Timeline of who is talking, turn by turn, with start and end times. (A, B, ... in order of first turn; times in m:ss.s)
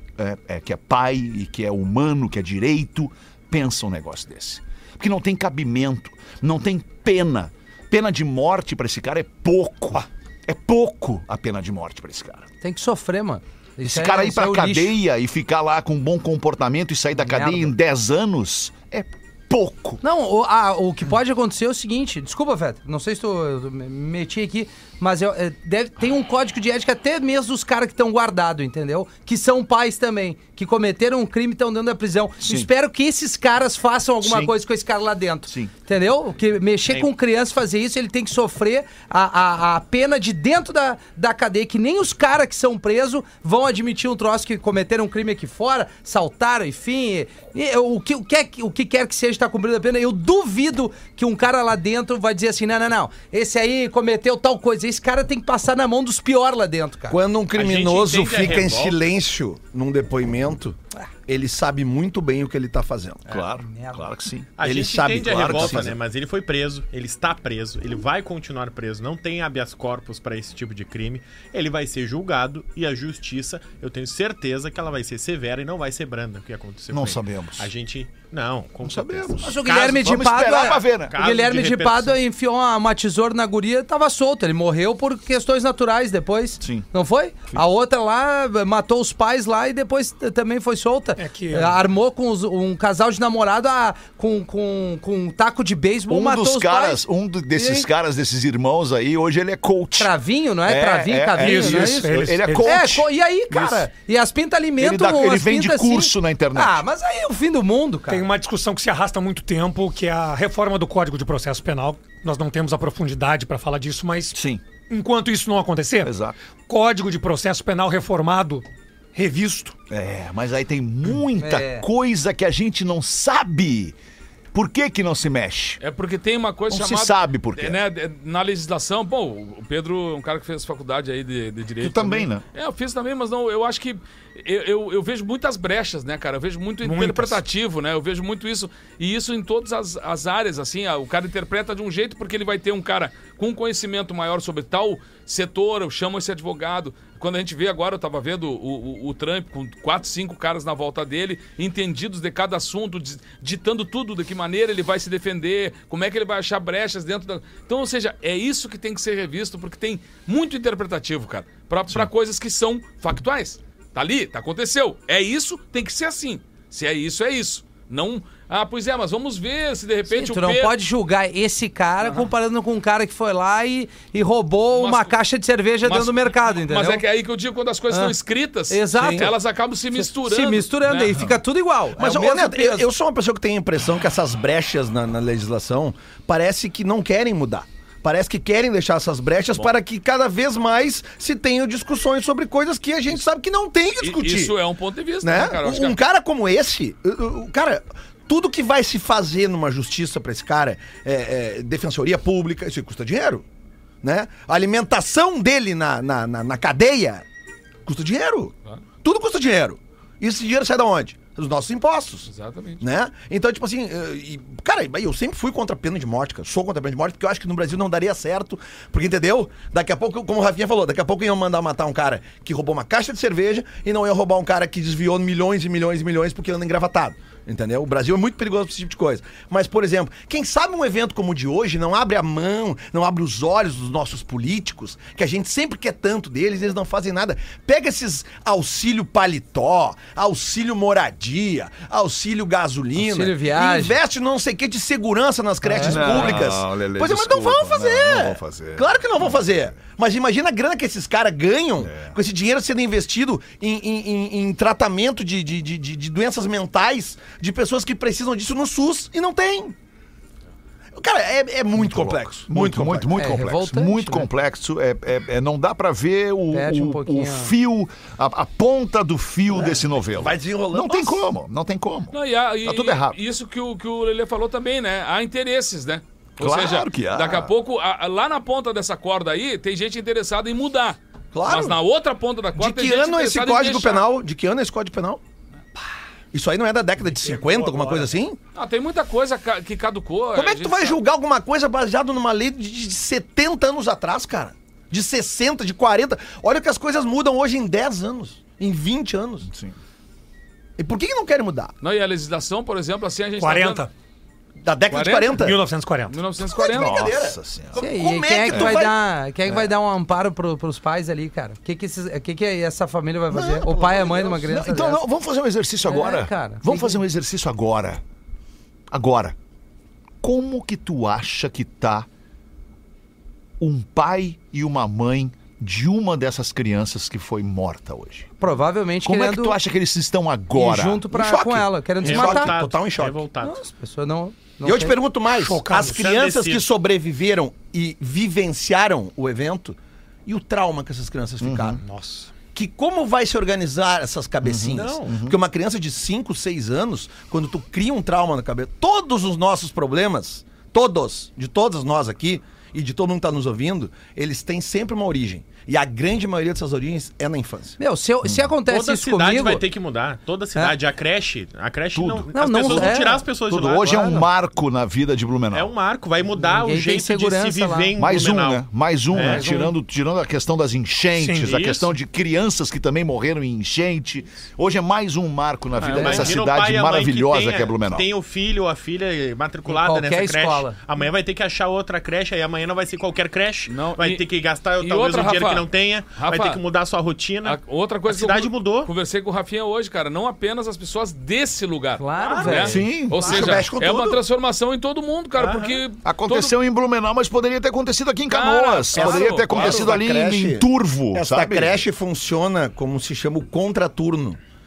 0:00.2-0:12.4 A
0:12.6-0:15.0 B
0:13.8-0:20.0 A
0:17.2-0:17.7 B
0:20.0-0:57.2 B
0:32.4-0:32.7 A
0:34.2-0:34.5 A
0:57.1-1:03.2 C
0:57.5-0:59.0 D
1:03.3-1:04.5 A
1:03.6-1:04.1 B
1:04.6-1:22.2 D
1:04.6-1:05.9 C
1:05.1-1:05.9 A
1:16.9-1:17.7 A
1:18.8-1:21.2 A
1:19.4-1:37.0 B
1:26.6-1:26.8 A
1:31.2-1:31.8 E
1:36.1-1:40.1 A
1:37.5-1:37.9 B
1:40.0-1:48.3 B
1:40.6-1:43.9 A
1:41.4-1:42.7 E
1:44.8-1:46.8 A
1:48.1-1:56.1 E
1:54.3-1:54.6 A
1:56.0-1:56.4 A
1:56.7-1:58.6 E
1:59.1-1:59.7 C
1:59.9-2:04.0 A
2:01.4-2:01.8 B
2:04.5-2:05.8 A
2:05.8-2:50.7 F
2:06.7-2:07.8 A
2:11.8-2:12.4 A
2:16.8-2:17.4 E
2:50.1-2:57.0 B
2:54.7-2:55.1 F
2:55.8-3:01.2 F
2:58.7-2:59.3 B
2:59.9-3:02.8 B
3:02.0-3:14.5 C
3:14.0-3:16.0 F
3:15.2-3:23.4 C
3:24.0-3:27.2 C
3:27.8-3:32.3 C
3:32.3-3:32.8 F
3:32.8-4:19.7 C
4:03.0-4:04.0 B
4:05.6-4:06.3 B
4:05.8-4:09.7 A
4:11.8-4:12.2 A
4:21.0-4:23.1 C
4:21.7-4:33.2 A
4:23.2-4:24.3 B
4:26.5-4:27.5 B
4:29.5-4:31.2 C
4:32.1-4:44.0 F
4:36.4-4:37.5 A
4:41.3-4:41.8 C
4:42.6-4:45.2 C
4:46.3-4:48.4 C
4:48.5-4:51.0 F
4:50.3-4:59.5 C
4:59.5-4:59.7 A
5:00.8-5:01.7 C
5:01.8-5:03.8 F
5:03.4-5:03.9 E
5:04.6-5:05.6 C
5:04.9-5:05.4 F
5:05.4-5:06.2 E
5:06.1-5:07.1 F
5:06.4-5:08.9 C
5:06.7-5:07.8 A
5:07.8-5:15.0 B
5:08.5-5:08.8 A
5:13.3-5:14.4 C
5:14.2-5:18.0 A
5:15.8-5:17.0 B
5:18.9-5:19.4 A
5:20.2-5:22.1 A
5:23.6-5:28.3 A
5:28.4-5:29.6 B
5:29.0-5:31.0 A
5:30.5-5:32.5 B
5:31.1-5:33.2 C
5:32.0-5:33.6 D
5:33.4-5:35.0 B
5:34.6-5:41.8 C
5:35.3-5:36.0 E
5:35.9-5:36.6 D
5:41.4-5:41.8 A
5:41.8-5:42.3 E
5:42.5-5:57.8 C
5:44.4-5:45.4 A
5:44.7-5:45.2 D
5:57.8-5:59.6 B
5:58.2-5:58.5 A
5:58.7-6:04.3 D
6:01.9-6:05.7 A
6:02.3-6:03.3 B
6:05.5-6:09.6 D
6:06.4-6:07.9 B
6:08.0-6:18.1 A
6:09.2-6:09.7 B
6:11.2-6:11.6 E
6:11.4-6:11.9 D
6:15.8-6:16.4 F
6:15.9-6:28.9 D
6:19.7-6:20.8 B
6:23.7-6:24.2 F
6:24.8-6:26.6 F
6:27.4-6:36.5 F
6:32.0-6:32.9 B
6:32.2-6:33.7 D
6:32.7-6:33.2 A
6:33.2-6:34.2 C
6:35.4-6:35.8 D
6:36.0-6:41.8 A
6:38.3-6:39.9 F
6:38.9-6:44.4 C